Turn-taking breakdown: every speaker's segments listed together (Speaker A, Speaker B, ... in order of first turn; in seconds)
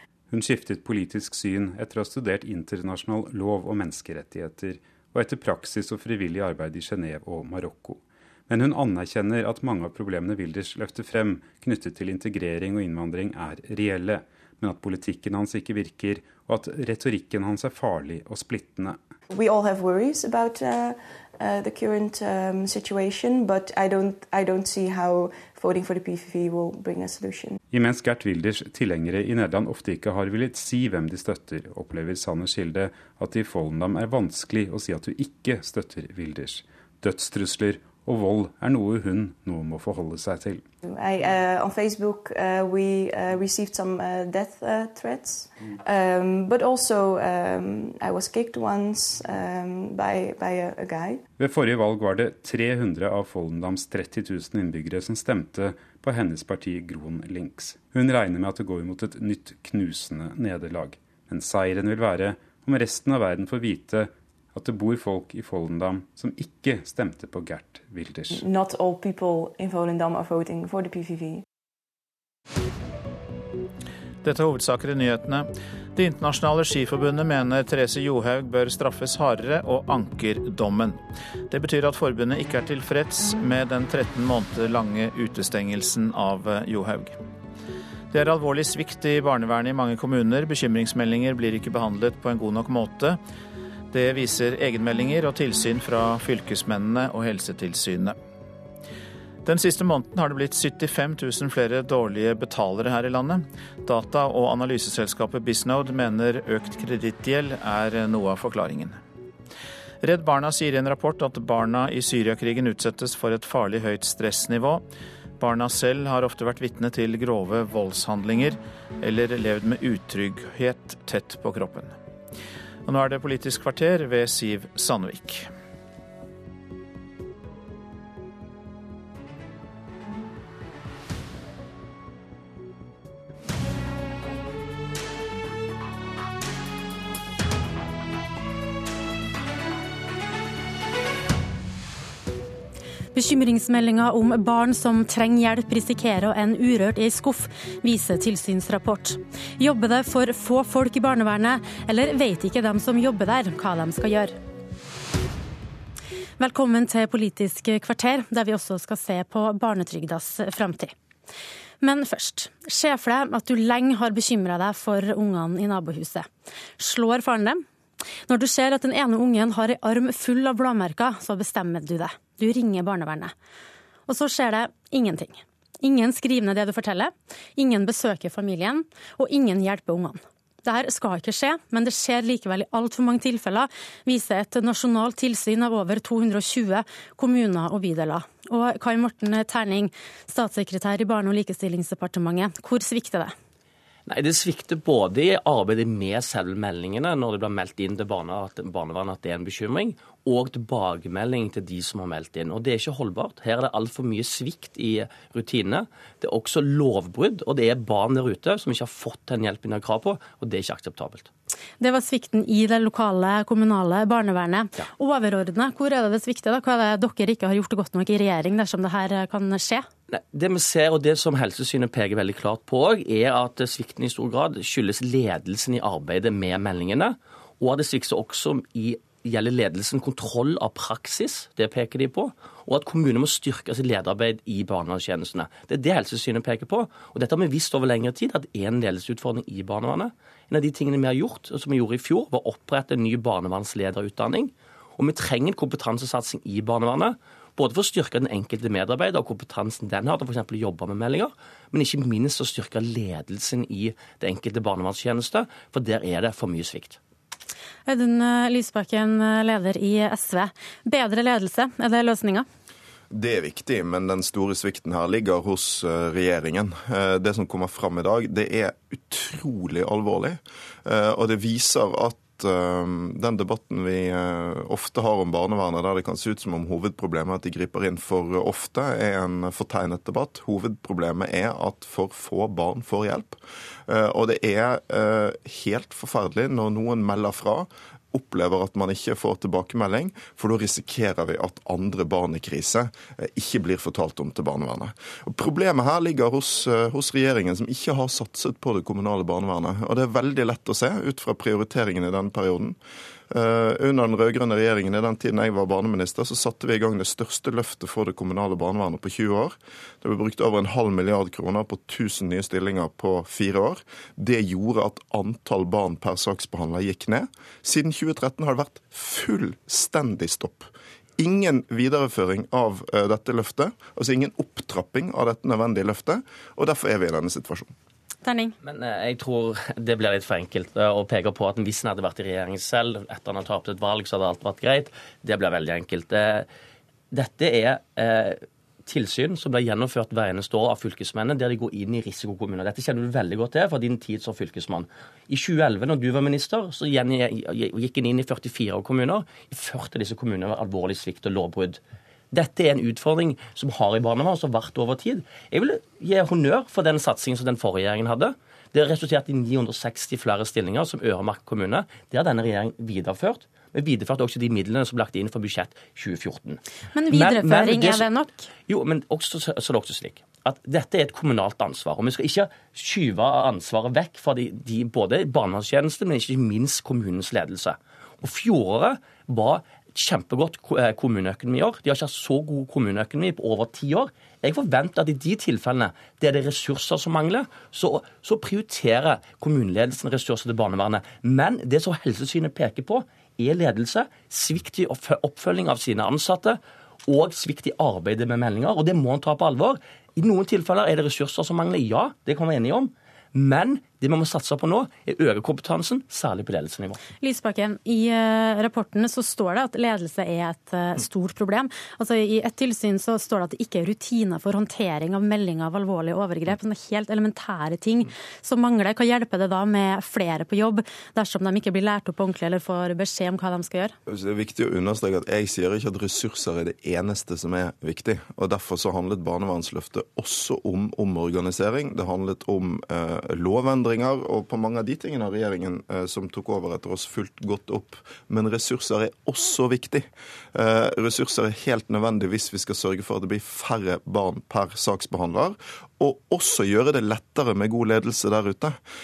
Speaker A: 0.3-19.0, 27.7-40.6, 51.4-68.5
Speaker B: 19.3-27.6, 40.9-51.2, 68.3-71.4
Speaker C: 74.2-87.2, 88.1-93.2, 93.9-98.2, 99.4-109.0, 110.0-114.8, 115.4-121.9, 122.8-125.5
Speaker D: 143.1-154.3, 156.4-160.9, 161.8-167.6, 168.3-173.3, 174.1-193.3, 211.8-219.9, 257.9-262.4, 328.2-328.5, 366.9-368.5, 407.2-423.9
Speaker E: 194.1-211.3, 220.1-257.0, 328.6-336.5, 337.1-351.8, 352.3-368.1, 368.7-407.0
Speaker F: 263.1-302.8, 303.3-327.7, 424.1-448.8